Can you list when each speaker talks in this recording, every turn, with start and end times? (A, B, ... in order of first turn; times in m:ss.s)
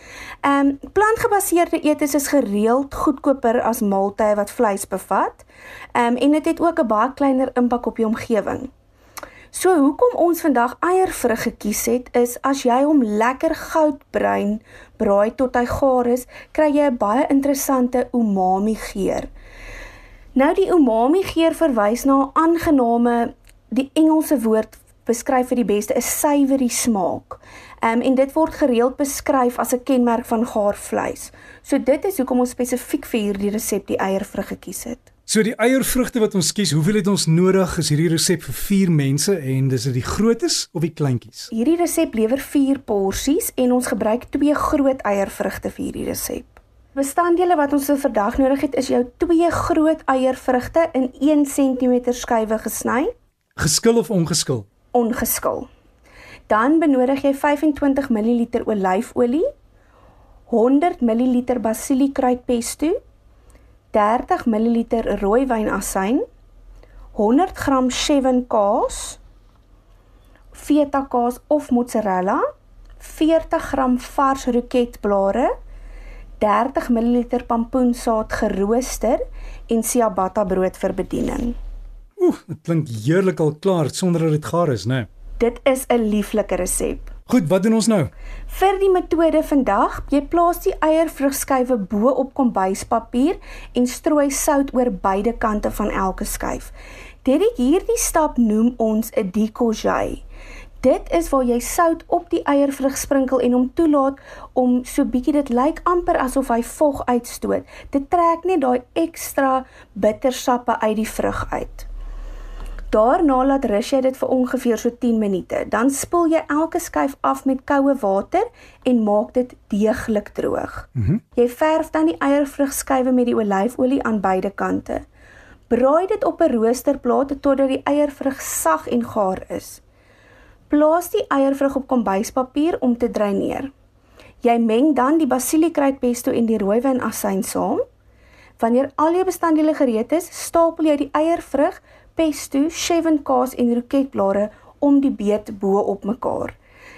0:00.4-0:08.7 A
0:09.5-0:19.3 A
0:20.4-0:35.1 A
0:35.3-0:41.5 B
0:41.5-0:53.1 A
0:53.6-0:54.6 B
0:54.9-0:55.7 A
0:56.5-0:59.5 A
1:00.5-1:03.0 A
1:03.9-1:06.2 A
1:07.2-1:09.2 A
1:10.5-1:12.4 A
1:13.0-1:15.5 A
1:16.4-1:21.6 A
1:22.2-1:25.1 B
1:25.4-1:27.1 A
1:27.3-1:28.1 B
1:28.5-1:36.7 A
1:37.2-1:40.2 A
1:40.8-1:51.9 A
1:52.9-2:05.0 A
2:05.7-2:09.8 A
2:10.7-2:13.7 A
2:14.4-2:17.8 A
2:18.6-2:26.6 A